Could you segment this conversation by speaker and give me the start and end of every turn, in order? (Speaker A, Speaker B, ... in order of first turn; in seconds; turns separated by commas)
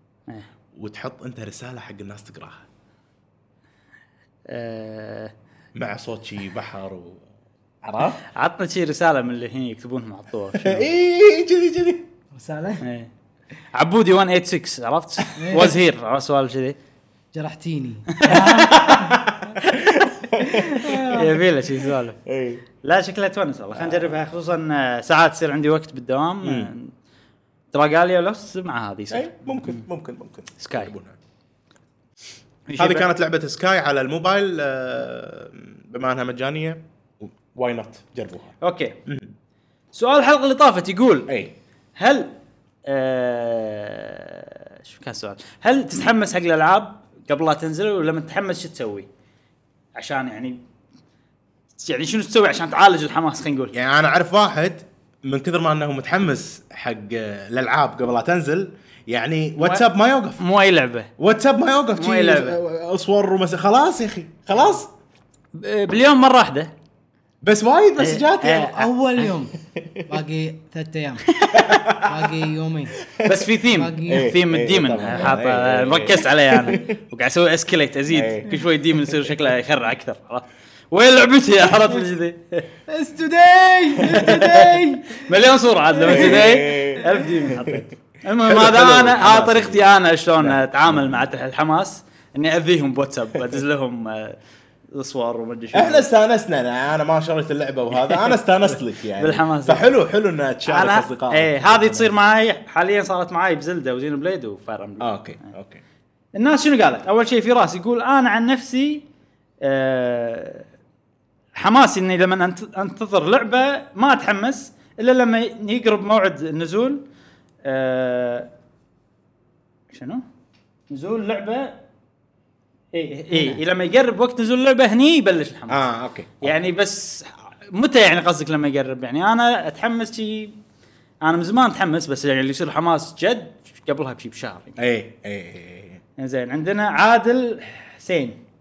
Speaker A: 0.8-2.7, Speaker B: 4.5-5.3, Speaker A: 5.8-7.3, Speaker A: 7.8-8.2, Speaker B: 8.3-10.9, Speaker A: 10.5-12.1, Speaker C: 12.3-12.8, Speaker B: 12.8-13.1, Speaker B: 13.7-16.8, Speaker C: 15.4-15.7, Speaker C: 17.3-19.2, Speaker B: 18.1-18.8, Speaker A: 18.3-21.3, Speaker C: 20.4-21.3, Speaker B: 21.1-22.2, Speaker A: 22.2-22.6, Speaker B: 22.8-26.9, Speaker A: 23.7-24.1, Speaker A: 26.4-26.7, Speaker B: 27.7-29.8, Speaker A: 29.1-31.2, Speaker B: 30.6-30.9, Speaker B: 32.7-33.1, Speaker A: 32.8-38.5, Speaker B: 38.6-39.0, Speaker A: 39.1-39.3, Speaker B: 39.9-41.3, Speaker A: 41.3-41.5, Speaker B: 42.0-42.3, Speaker B: 42.9-49.1, Speaker B: 50.0-50.6, Speaker B: 51.8-53.8, Speaker A: 53.7-60.4, Speaker B: 59.6-59.9, Speaker B: 60.4-61.1, Speaker A: 61.2-64.9, Speaker B: 62.0-62.6, Speaker B: 65.5-66.7, Speaker A: 67.4-68.8, Speaker B: 68.0-69.3, Speaker C: 68.6-69.5, Speaker A: 69.8-70.1, Speaker C: 70.1-71.4, Speaker B: 71.3-71.8, Speaker A: 71.5-72.3, Speaker C: 71.9-73.1, Speaker A: 73.0-73.5, Speaker B: 73.2-82.7, Speaker C: 73.8-74.3, Speaker A: 74.1-77.0, Speaker A: 78.1-79.3, Speaker C: 82.9-85.3, Speaker B: 84.1-94.4, Speaker C: 86.0-87.3, Speaker A: 86.1-87.8, Speaker A: 88.4-91.3, Speaker B: 94.9-96.1, Speaker A: 95.7-102.1, Speaker B: 98.0-98.4, Speaker B: 99.2-99.9, Speaker B: 100.7-105.1, Speaker A: 105.0-105.8, Speaker B: 106.3-109.0, Speaker B: 109.6-110.7, Speaker B: 111.6-117.0, Speaker B: 117.6-118.5, Speaker B: 119.9-120.2, Speaker B: 120.9-121.8, Speaker B: 122.9-125.9, Speaker A: 125.7-126.6, Speaker B: 126.4-130.6, Speaker B: 131.2-134.8, Speaker A: 134.8-136.0, Speaker B: 136.2-138.4